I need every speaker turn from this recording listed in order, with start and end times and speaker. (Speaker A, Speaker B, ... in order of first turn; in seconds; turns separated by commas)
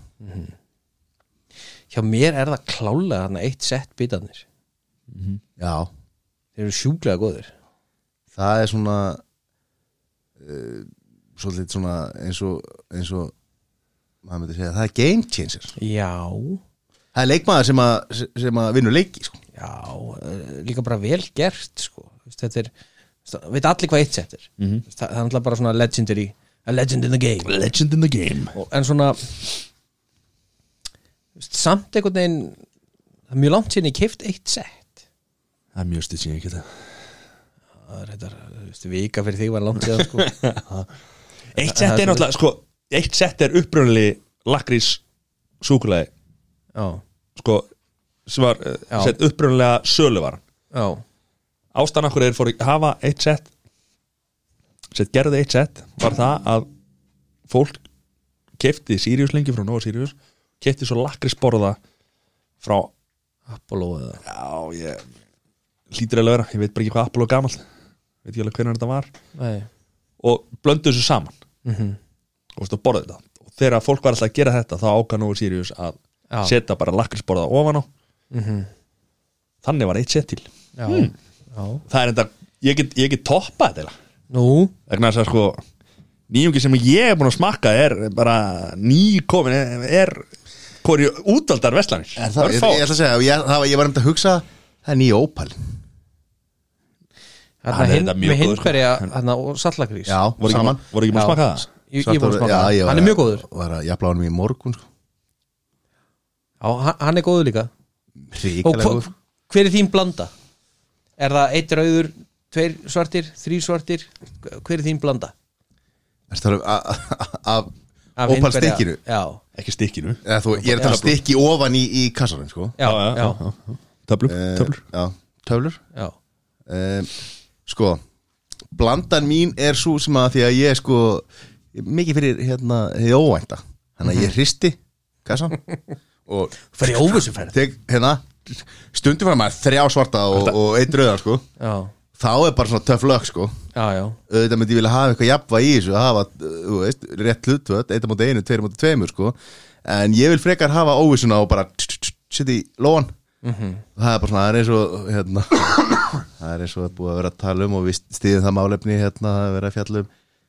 Speaker A: 0.2-0.5, Speaker A: 1.9-4.4, Speaker B: 5.1-5.4, Speaker C: 5.6-5.9, Speaker A: 6.6-7.5, Speaker C: 8.3-9.2, Speaker C: 10.4-13.3, Speaker C: 14.2-15.7, Speaker A: 15.8-16.6, Speaker C: 17.1-19.4, Speaker A: 19.6-22.7, Speaker A: 23.2-27.5, Speaker B: 27.4-28.5, Speaker A: 28.5-29.3, Speaker A: 31.4-32.6, Speaker A: 33.3-34.9, Speaker B: 35.7-36.7, Speaker A: 37.9-40.3, Speaker B: 40.1-40.9, Speaker B: 41.5-45.0, Speaker A: 41.7-42.2, Speaker B: 45.6-46.1, Speaker A: 46.7-47.0, Speaker B: 47.4-47.7, Speaker B: 48.3-50.4, Speaker A: 50.7-51.0, Speaker B: 51.7-53.5, Speaker B: 54.9-56.7, Speaker B: 57.5-57.8, Speaker B: 58.6-61.8, Speaker B: 62.6-62.9, Speaker A: 63.5-64.2, Speaker B: 64.2-65.0, Speaker B: 65.9-67.6, Speaker B: 68.2-69.1, Speaker A: 69.4-69.7, Speaker B: 70.2-71.3, Speaker A: 71.6-72.0, Speaker B: 72.5-77.9, Speaker A: 78.3-78.7, Speaker B: 79.6-81.1, Speaker A: 80.8-81.8, Speaker B: 81.9-83.9, Speaker A: 84.3-84.7, Speaker B: 84.9-85.6, Speaker B: 86.3-90.2, Speaker B: 90.8-92.8, Speaker C: 92.2-95.6, Speaker A: 97.6-100.6, Speaker B: 97.7-99.1, Speaker C: 100.1-100.8, Speaker B: 100.4-101.7, Speaker A: 101.1-103.4, Speaker C: 102.0-104.8, Speaker A: 106.6-107.7, Speaker C: 108.3-109.1, Speaker A: 108.6-110.3, Speaker A: 111.2-115.3, Speaker C: 116.3-117.7, Speaker A: 118.2-119.4, Speaker C: 118.2-119.0, Speaker B: 119.5-120.2, Speaker C: 120.2-122.8, Speaker A: 120.6-121.1, Speaker B: 120.8-121.1, Speaker A: 122.8-123.4, Speaker B: 122.8-124.8, Speaker C: 124.3-125.8, Speaker C: 126.7-127.1, Speaker C: 127.7-128.0, Speaker C: 128.7-135.6, Speaker C: 136.3-141.4, Speaker A: 136.8-137.6, Speaker A: 141.6-141.9, Speaker C: 142.2-143.5, Speaker A: 143.7-144.2, Speaker C: 144.3-153.1, Speaker A: 153.4-153.8, Speaker C: 153.9-160.1